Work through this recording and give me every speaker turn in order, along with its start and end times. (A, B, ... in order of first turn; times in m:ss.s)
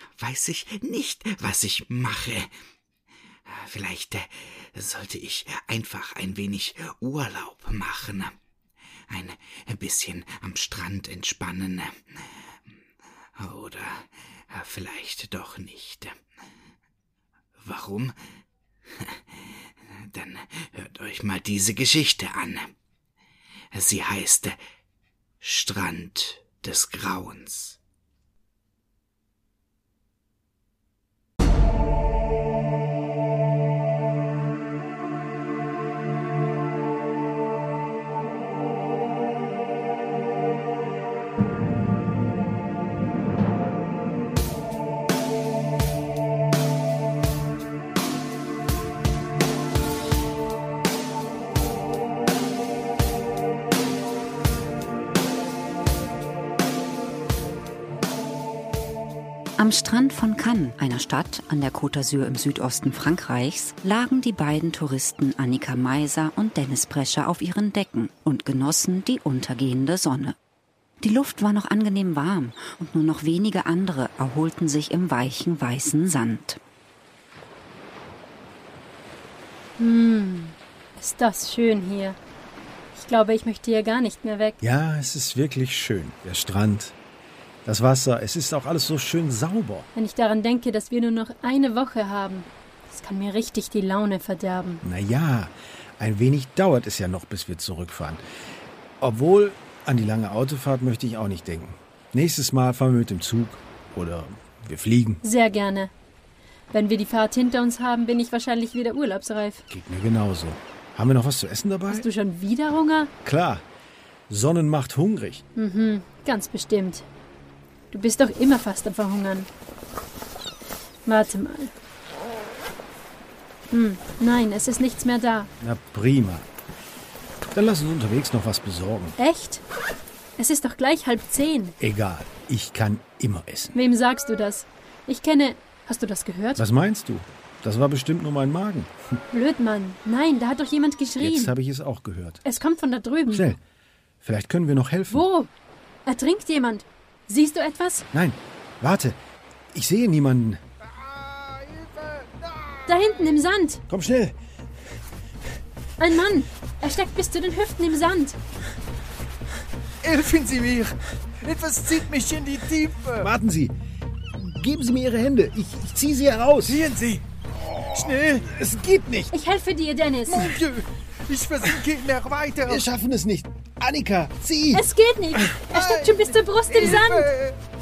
0:00.2-0:02.5 A
0:03.5-0:08.3 A
0:09.1-0:12.0 A
0:13.4-0:16.2 A
0:17.6-0:18.2 A
0:18.9-0:22.7 A
0:23.7-0:24.6 A
0:25.4-0:27.8 A
0:59.6-1:10.4 B
1:11.0-1:16.6 B
1:19.8-1:22.2 C
1:23.0-1:24.6 C
1:24.6-1:27.0 D
1:27.6-1:29.9 D
1:30.0-1:34.8 C
1:34.8-1:38.2 D
1:39.0-1:45.2 D
1:45.2-1:45.9 C
1:46.7-1:49.6 C
1:49.7-1:52.1 D
1:51.9-1:53.1 C
1:53.2-1:53.6 D
1:54.3-1:55.4 D
1:55.6-1:57.1 C
1:57.9-1:59.5 C
2:01.1-2:01.7 C
2:03.7-2:05.5 C
2:05.6-2:06.5 D
2:07.5-2:09.2 D
2:09.2-2:09.6 C
2:10.4-2:11.8 C
2:11.8-2:13.8 D
2:13.8-2:16.6 C
2:16.6-2:18.9 D
2:19.3-2:21.5 C
2:21.2-2:22.4 D
2:22.4-2:23.5 C
2:23.3-2:23.6 D
2:24.2-2:25.2 D
2:25.1-2:25.5 C
2:26.1-2:28.1 C
2:28.1-2:29.2 D
2:29.7-2:30.6 D
2:31.7-2:32.2 E
2:32.9-2:33.8 C
2:33.9-2:34.4 D
2:36.0-2:38.4 C
2:40.0-2:43.3 E
2:43.2-2:43.8 D
2:44.3-2:46.9 D
2:46.7-2:47.2 E
2:47.9-2:48.4 E
2:47.9-2:49.3 D
2:49.3-2:50.6 C
2:50.3-2:52.8 E
2:52.6-2:54.9 D
2:54.7-2:57.4 C
2:55.7-2:57.6 E